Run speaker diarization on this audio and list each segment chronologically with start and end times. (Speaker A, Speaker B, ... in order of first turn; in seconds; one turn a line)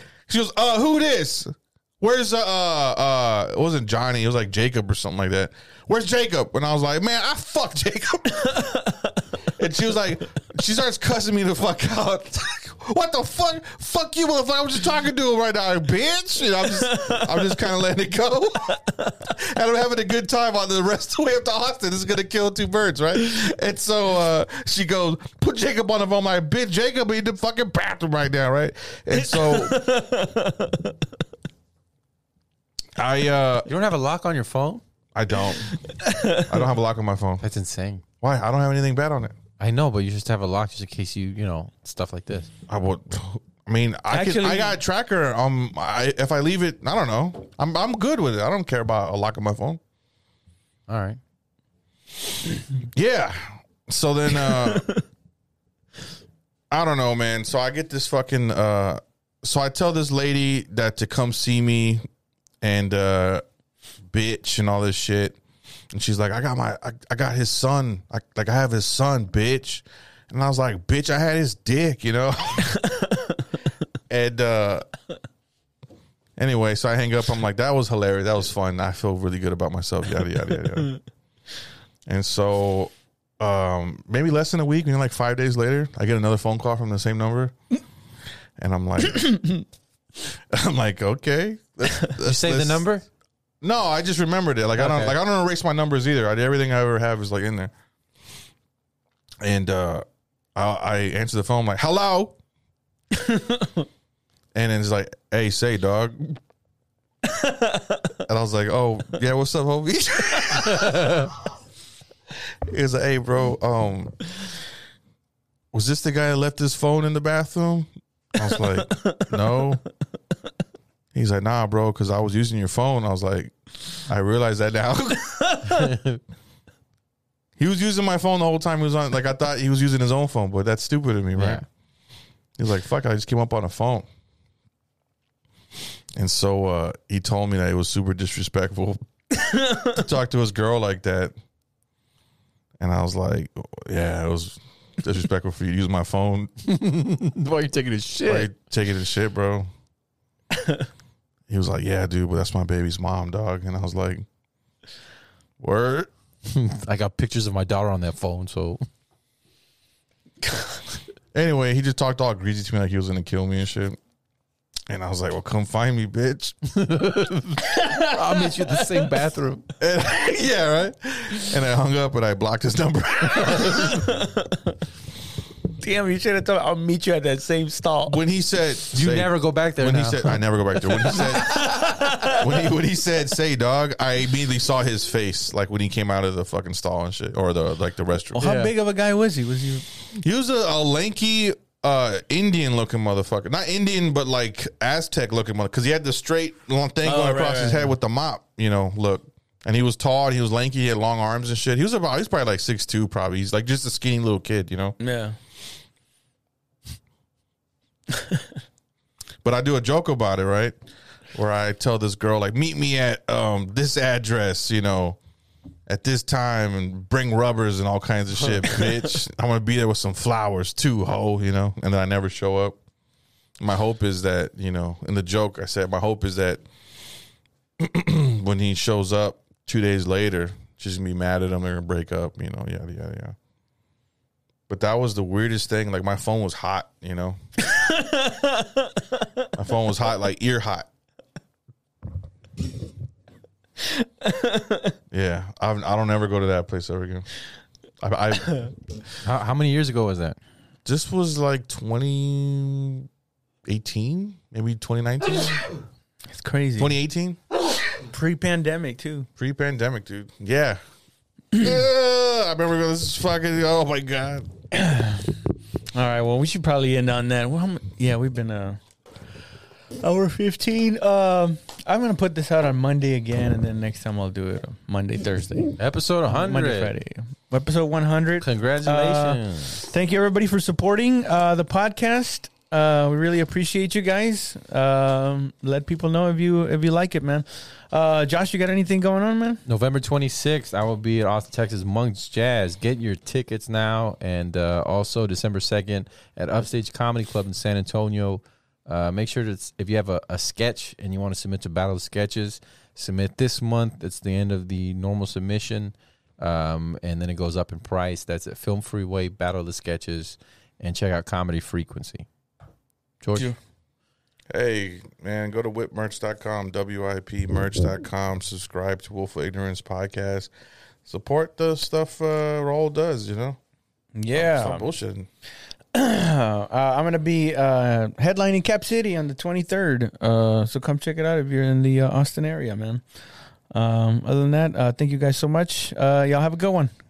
Speaker A: 0.3-8.8
Speaker B: 8.5-9.0
Speaker A: 9.6-29.9
Speaker B: 16.8-17.5
Speaker B: 29.1-30.9
Speaker A: 33.0-33.7
Speaker C: 33.7-34.8
Speaker A: 35.1-35.8
Speaker B: 35.7-36.6
Speaker A: 36.3-37.4
Speaker C: 37.4-38.0
Speaker A: 38.2-39.4
Speaker C: 39.6-42.5
Speaker A: 42.7-49.8
Speaker B: 44.1-44.8
Speaker C: 50.9-51.2
Speaker A: 52.9-54.9
Speaker B: 54.4-55.0
Speaker A: 56.7-62.0
Speaker A: 62.6-63.4
Speaker A: 64.1-65.4
Speaker A: 65.9-72.8
Speaker B: 72.8-73.3
Speaker A: 74.1-74.9
Speaker A: 76.4-81.0
Speaker A: 82.1-87.5
Speaker A: 88.6-89.6
Speaker A: 90.5-92.9
Speaker C: 92.2-93.0
Speaker A: 93.6-97.7
Speaker C: 94.8-95.2
Speaker A: 99.4-102.3
Speaker B: 103.1-103.8
Speaker A: 104.5-106.4
Speaker B: 107.3-108.1
Speaker A: 108.2-111.3
Speaker C: 110.9-111.2
Speaker A: 112.7-114.3
Speaker A: 115.7-119.8
Speaker B: 118.6-119.3
Speaker A: 121.1-123.5
Speaker A: 124.0-125.8
Speaker C: 125.7-126.2
Speaker A: 127.6-131.6
Speaker C: 131.3-131.6
Speaker A: 132.6-134.1
Speaker A: 136.2-139.0
Speaker B: 139.4-140.0
Speaker A: 139.7-141.3
Speaker A: 142.8-146.5
Speaker C: 146.6-148.5
Speaker A: 148.2-149.7
Speaker A: 151.5-154.2
Speaker A: 155.6-156.1
Speaker C: 156.4-158.8
Speaker A: 161.3-164.0
Speaker A: 164.9-166.6
Speaker C: 166.6-169.7
Speaker B: 167.6-169.1
Speaker A: 169.8-174.1
Speaker C: 173.4-173.9
Speaker B: 173.7-174.6
Speaker B: 175.8-178.2
Speaker A: 178.1-188.6
Speaker C: 178.9-181.6
Speaker B: 181.4-182.5
Speaker B: 188.3-189.8
Speaker C: 188.4-188.7
Speaker A: 190.1-204.9
Speaker B: 197.0-197.9
Speaker B: 205.0-205.4
Speaker B: 208.1-208.4
Speaker A: 209.4-210.7
Speaker A: 211.3-215.2
Speaker A: 215.9-222.8
Speaker A: 223.6-226.6
Speaker A: 227.8-233.3
Speaker A: 234.7-237.4
Speaker B: 237.7-238.9
Speaker A: 239.6-240.9
Speaker B: 244.0-244.9
Speaker A: 245.1-247.3
Speaker A: 248.0-248.7
Speaker C: 249.2-250.4
Speaker A: 250.8-253.1
Speaker A: 253.7-255.7
Speaker B: 256.3-256.9
Speaker A: 256.8-257.4
Speaker B: 258.0-259.3
Speaker A: 259.4-260.8
Speaker A: 261.5-264.5
Speaker B: 264.7-265.3
Speaker B: 265.9-268.8
Speaker B: 270.0-289.6
Speaker C: 275.8-276.9
Speaker C: 278.4-279.8
Speaker C: 289.6-312.3
Speaker C: 313.2-313.5
Speaker A: 314.5-320.5
Speaker A: 321.1-323.6
Speaker B: 324.1-324.8
Speaker A: 324.3-325.3
Speaker B: 325.9-333.0
Speaker B: 333.7-336.9